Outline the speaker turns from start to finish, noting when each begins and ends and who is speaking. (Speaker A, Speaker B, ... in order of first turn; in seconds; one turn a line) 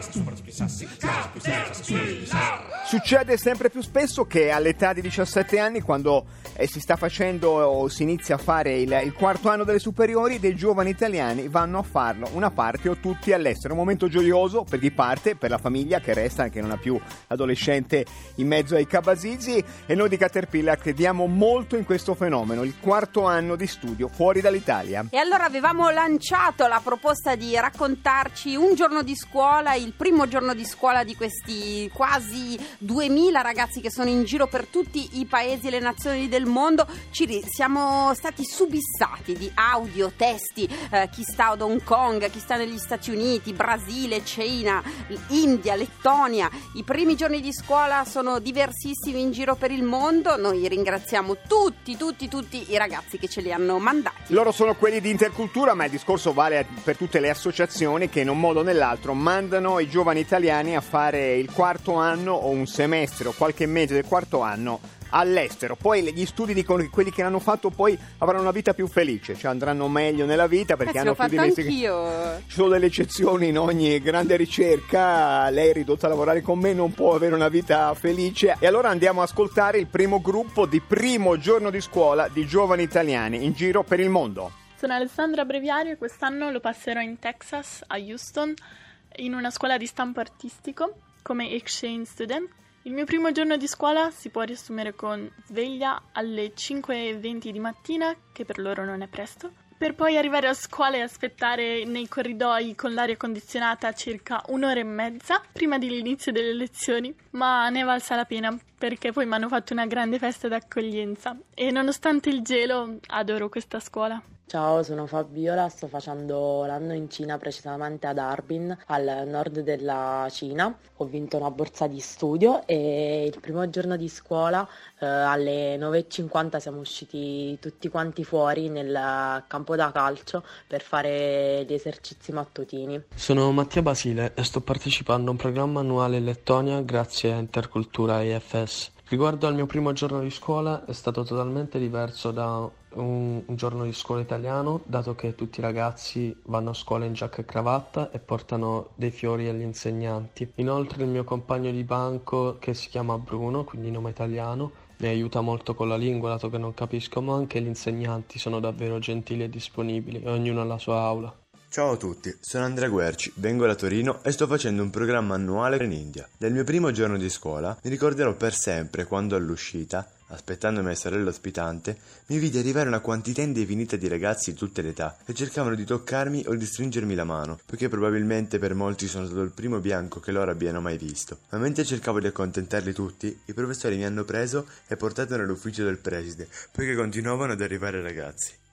Speaker A: 2.8-25.1
Speaker B: 25.1-54.4
Speaker A: 54.3-71.8
Speaker B: 70.8-72.4
Speaker A: 72.5-84.5
Speaker C: 84.8-88.6
Speaker C: 89.2-114.2
Speaker D: 114.5-133.0
Speaker E: 133.2-161.3
Speaker F: 161.7-188.6